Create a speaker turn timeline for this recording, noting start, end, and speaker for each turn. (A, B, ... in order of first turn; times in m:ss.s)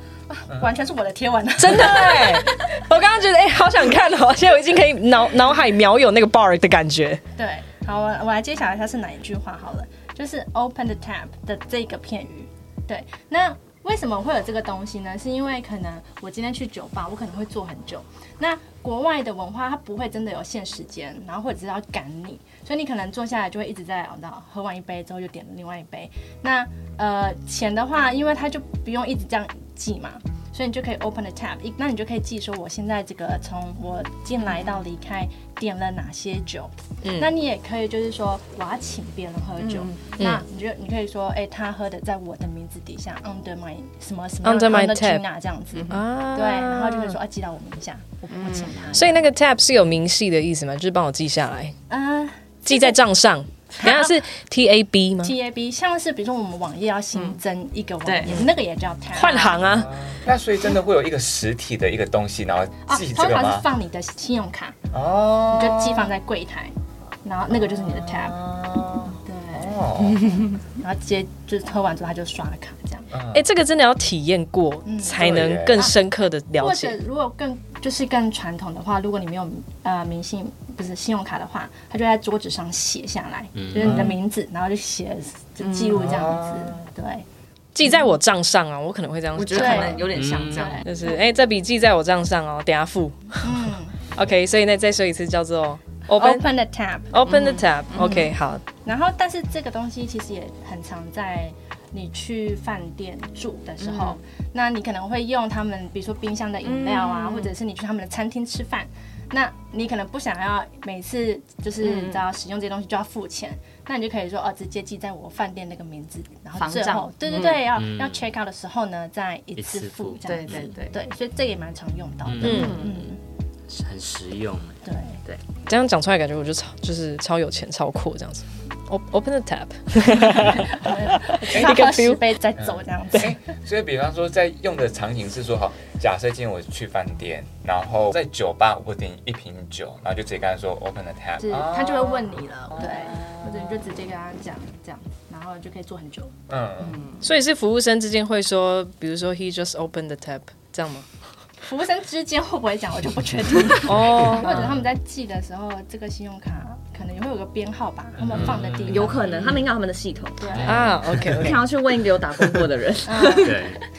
0:00.3-0:02.8 A
0:01.6-0:07.2 B
0:07.4-0:49.3 A
0:37.0-0:37.3 B
0:39.6-0:40.0 C
0:40.2-0:40.4 B
0:44.4-0:45.2 B
0:45.7-0:46.0 C
0:45.9-0:47.2 B
0:48.3-0:48.8 C
0:48.9-0:51.7 B
0:51.9-0:53.0 A
0:52.7-0:55.3 B
0:53.8-0:54.2 A
0:55.2-0:59.6 A
0:57.1-0:57.4 C
0:58.0-0:58.4 C
0:58.3-0:58.5 B
0:59.1-0:59.9 B
0:59.7-1:03.7 D
1:02.9-1:04.8 A
1:04.9-1:06.1 D
1:05.5-1:08.4 A
1:07.7-1:10.3 D
1:09.1-1:13.1 A
1:13.1-1:13.5 D
1:13.3-1:17.0 B
1:14.8-1:16.0 A
1:15.2-1:15.9 D
1:16.6-1:27.2 A
1:23.6-1:24.1 E
1:23.8-1:24.1 D
1:25.6-1:26.1 C
1:26.0-1:26.8 D
1:27.8-1:30.0 B
1:29.4-1:30.9 C
1:29.5-1:31.2 A
1:30.1-1:30.8 E
1:30.8-1:36.5 B
1:33.4-1:34.0 A
1:36.1-1:37.2 A
1:37.1-1:38.6 B
1:37.2-1:38.3 C
1:38.8-2:03.2 A
1:43.8-1:44.2 C
1:46.6-1:47.5 C
1:51.8-1:52.2 C
1:56.6-1:57.7 C
1:57.6-1:58.3 E
1:59.6-2:00.7 E
2:00.2-2:01.0 C
2:02.2-2:02.8 E
2:02.4-2:02.8 B
2:02.4-2:03.0 C
2:03.7-2:04.8 E
2:04.8-2:05.2 A
2:05.7-2:12.3 B
2:10.3-2:13.4 A
2:12.6-2:23.7 D
2:21.4-2:26.4 A
2:26.5-2:27.0 D
2:26.8-2:27.3 C
2:27.2-2:31.1 B
2:31.6-2:39.5 A
2:33.8-2:34.6 B
2:38.2-2:39.1 D
2:38.3-2:39.6 E
2:38.9-2:40.7 C
2:40.4-2:40.9 A
2:40.6-2:41.5 D
2:40.6-2:41.6 B
2:41.2-2:43.8 C
2:43.1-2:43.6 A
2:43.4-2:43.8 E